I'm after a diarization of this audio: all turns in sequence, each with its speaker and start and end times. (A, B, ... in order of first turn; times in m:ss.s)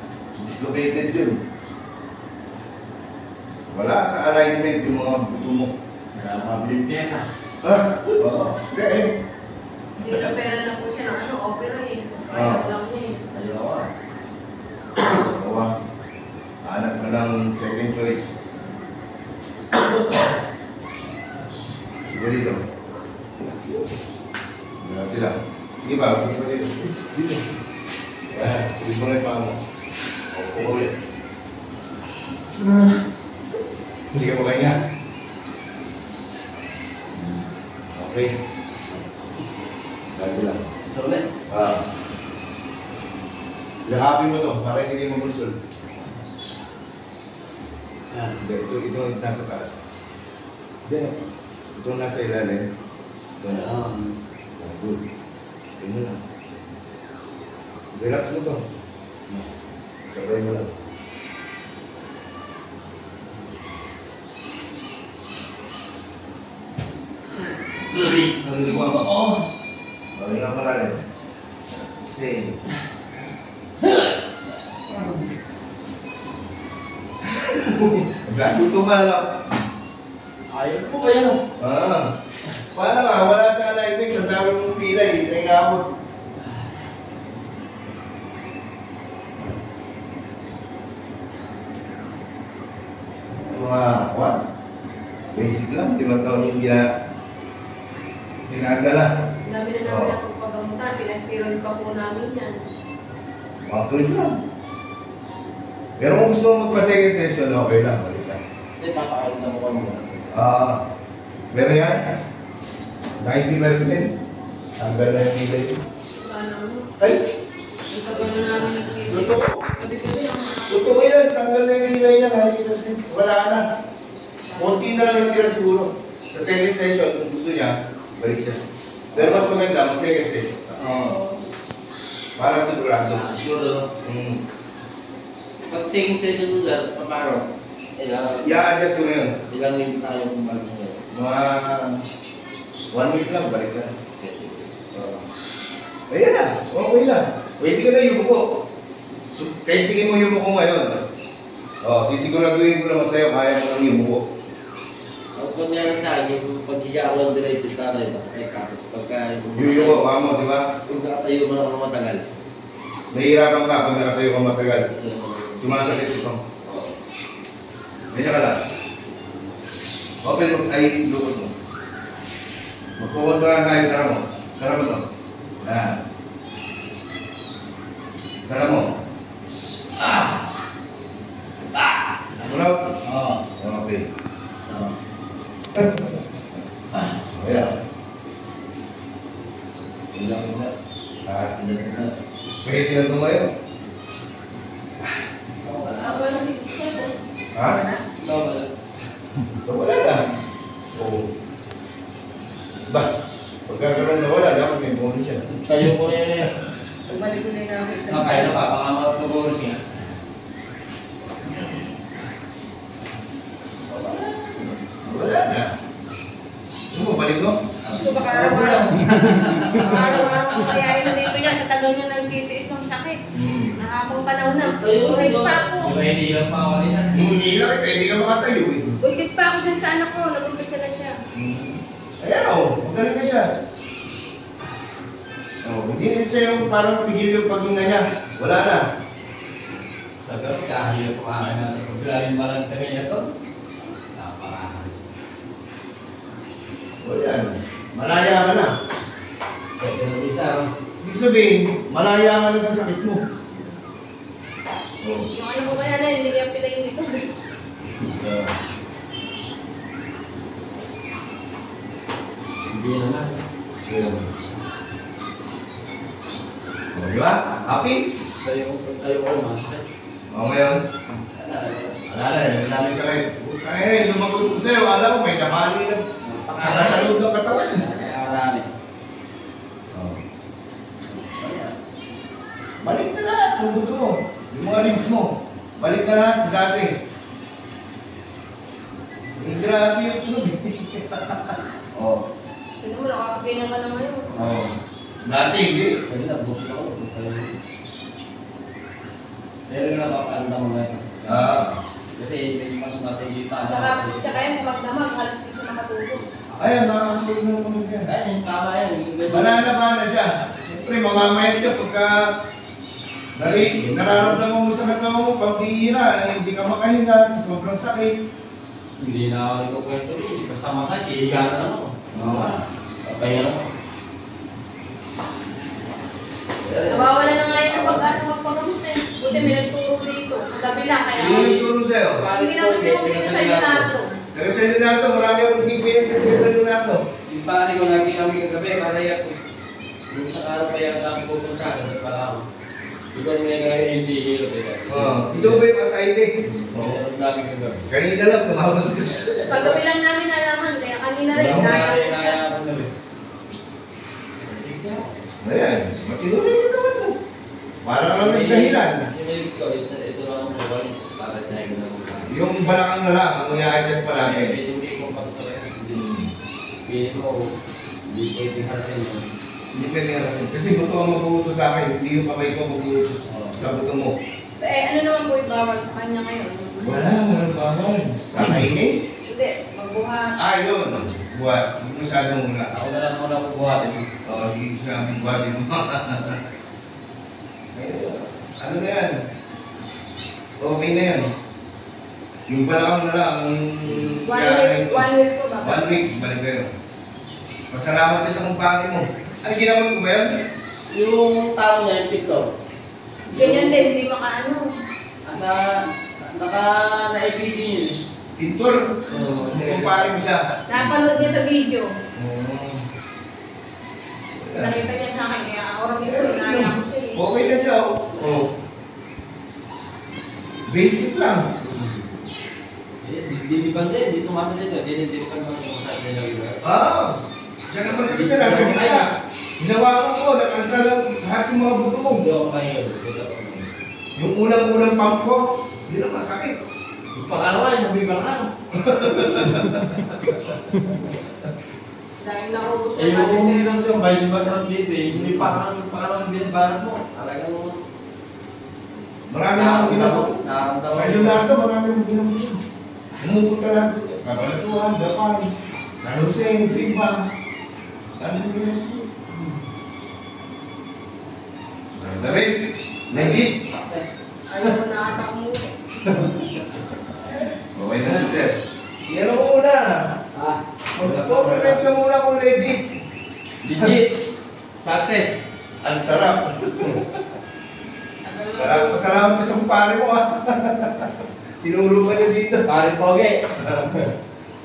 0:00.4-0:01.4 A
0:03.7-0:05.7 A
0:06.1-0:07.3 B
0:07.6-0:09.1 A
0:10.0-0:13.2 C
0:10.0-0:10.3 A
0:12.3-0:12.7 A
0:13.3-0:13.9 B
0:15.0-0:15.8 A
0:16.6-0:18.4 A
0:19.7-0:20.3 B
0:22.1-0:22.7 A
0:23.4-0:23.7 A
0:24.8-0:27.4 A
0:28.3-0:29.6 A
0:30.3-0:30.9 A
0:34.1-0:34.8 A
0:37.9-0:38.4 A
0:40.1-0:40.7 A
0:40.9-0:41.3 B
0:41.5-0:41.8 A
0:43.8-0:45.6 A
0:48.1-0:48.4 B
0:48.4-0:49.8 A
0:50.9-0:51.1 A
0:51.8-0:52.7 A
0:53.4-0:53.7 A
0:53.5-0:54.2 B
0:54.6-0:55.0 A
0:55.8-0:56.2 A
0:57.9-0:58.6 A
1:00.1-1:00.7 A
1:07.9-1:09.4 B
1:08.4-1:09.1 A
1:10.2-1:11.0 A
1:12.1-1:12.6 A
1:17.2-1:19.4 A
1:20.5-1:21.4 B
1:21.6-1:22.1 A
1:22.7-1:25.9 A
1:33.5-1:34.4 A
1:35.3-1:36.9 A
1:38.5-1:39.2 A
1:39.4-1:42.6 C
1:39.8-1:40.2 A
1:43.6-1:44.4 A
1:46.0-1:48.4 A
1:48.8-1:50.5 B
1:50.3-1:50.8 A
1:51.5-1:52.2 A
1:53.2-1:54.2 A
1:54.8-1:55.8 A
1:56.0-1:57.1 C
1:57.9-2:01.0 C
1:59.1-1:59.6 A
2:00.7-2:03.6 A
2:04.5-2:04.9 C
2:04.5-2:08.6 A
2:09.1-2:09.6 B
2:09.2-2:10.8 A
2:10.8-2:11.2 B
2:11.0-2:11.4 C
2:12.4-2:13.3 A
2:13.1-2:13.9 B
2:14.0-2:14.4 A
2:15.7-2:18.6 B
2:18.4-2:19.4 A
2:19.5-2:21.0 B
2:21.1-2:22.0 A
2:22.9-2:25.2 A
2:26.1-2:28.6 A
2:29.3-2:31.0 A
2:31.8-2:34.2 A
2:35.3-2:40.1 B
2:39.6-2:40.8 A
2:40.8-2:42.3 B
2:43.1-2:45.0 A
2:45.0-2:45.9 B
2:45.6-2:46.5 A
2:46.6-2:46.9 B
2:48.1-2:48.6 A
2:50.2-2:51.5 A
2:53.0-2:55.1 A
2:55.6-2:56.0 A
2:58.5-2:59.0 A
3:00.0-3:00.4 B
3:02.4-3:03.0 A
3:03.0-3:03.4 B
3:03.6-3:04.1 A
3:04.6-3:05.0 B
3:05.7-3:06.2 A
3:07.0-3:07.7 B
3:07.3-3:07.7 A
3:10.2-3:10.7 B
3:10.2-3:10.4 A
3:11.2-3:11.6 A
3:11.6-3:12.2 B
3:12.6-3:13.5 A
3:15.6-3:16.3 B
3:15.9-3:18.0 C
3:17.6-3:17.8 A
3:18.2-3:18.7 B
3:19.6-3:20.3 A
3:20.9-3:21.3 A
3:23.7-3:25.4 A
3:25.4-3:26.5 B
3:27.1-3:28.6 C
3:28.0-3:29.9 B
3:33.9-3:35.7 A
3:36.9-3:37.6 A
3:37.8-3:41.4 B
3:37.9-3:39.1 C
3:39.8-3:43.2 C
3:43.3-3:43.8 A
3:43.8-3:46.0 C
3:44.6-3:47.4 B
3:47.1-3:48.9 A
3:49.0-3:51.2 C
3:51.3-3:53.6 A
3:55.6-3:58.8 A
4:00.2-4:03.3 B
4:03.9-4:05.0 B
4:07.0-4:08.7 A
4:09.8-4:10.7 B
4:11.0-4:13.2 A
4:15.0-4:15.3 A
4:15.3-4:17.3 C
4:18.0-4:18.5 A
4:22.7-4:23.4 B
4:23.8-4:24.3 A
4:26.9-4:28.0 A
4:28.4-4:29.9 B
4:30.3-4:30.8 A
4:31.2-4:32.0 B
4:32.1-4:36.0 A
4:36.2-4:38.7 B
4:36.5-4:37.9 A
4:39.9-4:40.2 A
4:41.1-4:41.7 B
4:42.8-4:46.9 A
4:49.4-4:52.2 A
4:52.8-4:54.4 C
4:54.3-4:54.7 A
4:55.2-4:56.0 A
4:56.1-4:57.6 B
4:59.7-5:04.4 B
5:01.3-5:01.8 A
5:03.7-5:06.3 C
5:06.6-5:06.9 B
5:06.6-5:08.1 A
5:08.0-5:09.7 B
5:09.3-5:12.3 A
5:13.4-5:18.2 A
5:13.4-5:14.4 B
5:19.0-5:23.7 B
5:22.1-5:22.6 A
5:26.6-5:28.2 B
5:26.9-5:31.7 C
5:31.1-5:32.3 A
5:32.1-5:33.9 B
5:32.3-5:34.1 C
5:34.3-5:37.0 A
5:37.3-5:39.4 B
5:40.1-5:42.5 B
5:43.1-5:45.7 B
5:44.9-5:47.0 A
5:46.4-5:47.9 B
5:47.9-5:49.8 A
5:49.5-5:52.4 C
5:51.3-5:52.9 B
5:51.4-5:51.9 A
5:54.4-5:55.2 B
5:55.4-5:57.2 A
5:57.8-5:59.1 A
5:58.0-6:02.4 B
6:02.3-6:04.6 A
6:04.1-6:06.1 B
6:05.9-6:06.3 A
6:06.8-6:07.5 B
6:08.1-6:09.3 B
6:09.7-6:14.2 A
6:13.3-6:13.8 B
6:14.6-6:17.1 C
6:16.8-6:19.0 A
6:19.2-6:20.4 C
6:20.4-6:22.7 A
6:22.7-6:24.1 B
6:24.2-6:26.4 A
6:27.8-6:29.2 A
6:30.6-6:31.3 A
6:32.5-6:35.1 A
6:34.2-6:36.0 C
6:35.6-6:36.7 A
6:37.7-6:40.4 A
6:40.9-6:42.5 B
6:43.3-6:43.9 B
6:43.3-6:44.7 C
6:45.3-6:48.0 B
6:48.4-6:51.4 A
6:49.1-6:50.2 B
6:50.7-6:51.9 C
6:52.2-6:52.8 A
6:54.4-6:54.9 A
6:54.6-6:57.2 C
6:56.0-6:58.5 A
7:00.7-7:01.5 A
7:01.6-7:02.1 B
7:03.0-7:06.6 B
7:06.6-7:12.2 A
7:07.8-7:09.1 B
7:12.1-7:13.7 B
7:14.2-7:16.6 A
7:17.1-7:18.5 B
7:18.8-7:20.9 A
7:19.1-7:19.8 B
7:22.2-7:23.8 C
7:23.0-7:27.8 B
7:25.1-7:25.6 A
7:29.3-7:30.3 A
7:29.5-7:31.5 B
7:30.9-7:32.6 A
7:33.2-7:37.3 A
7:38.2-7:39.1 A
7:42.0-7:43.6 A
7:43.1-7:44.2 B
7:44.5-7:45.7 C
7:46.0-7:46.7 A
7:47.3-7:50.1 A
7:50.3-7:51.9 B
7:51.0-7:52.8 A
7:53.6-7:54.1 B
7:54.8-7:55.4 B
7:55.8-7:57.2 A
7:58.2-7:59.1 C
7:58.6-8:02.7 A
8:02.6-8:04.0 B
8:03.6-8:04.0 A